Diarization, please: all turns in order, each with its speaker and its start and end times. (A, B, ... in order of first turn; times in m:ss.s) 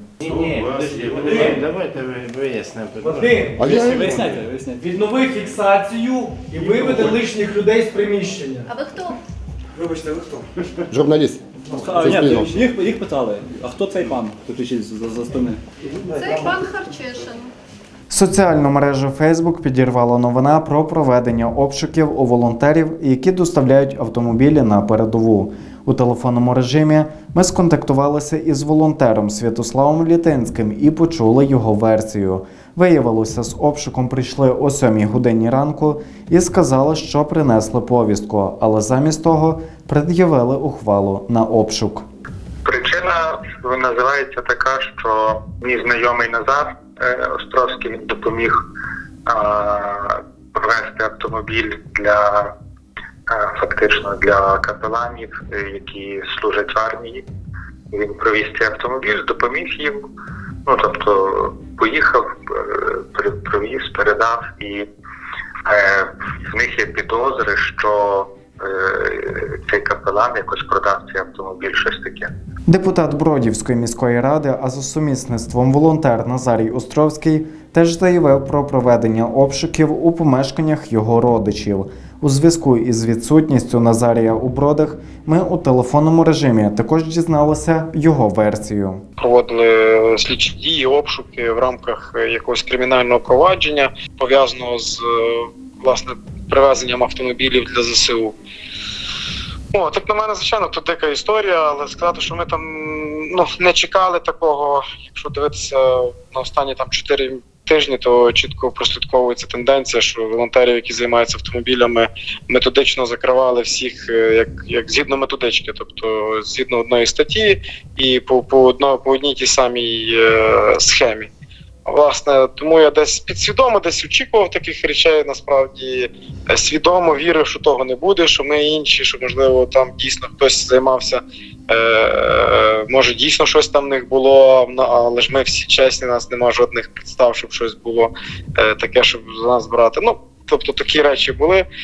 0:00.2-0:04.4 A
0:01.3-0:01.6 B
0:03.2-0:03.6 B
0:03.7-0:04.9 C
0:04.8-0:08.6 B
0:08.6-0:09.2 D
0:10.0-0:10.4 B
0:10.9-0:11.4 A
0:11.8-0:15.6 C
0:11.9-0:12.5 A
0:16.1-0:17.5 D
0:18.1-0:42.0 E
0:42.6-0:48.6 F
0:49.3-0:52.5 F
0:53.3-0:57.2 F
0:57.9-1:00.1 F
1:00.7-1:04.9 F
1:05.7-1:12.3 F
1:12.7-1:29.0 E
1:29.2-1:38.4 G
1:39.7-2:01.3 G
2:01.9-2:21.7 G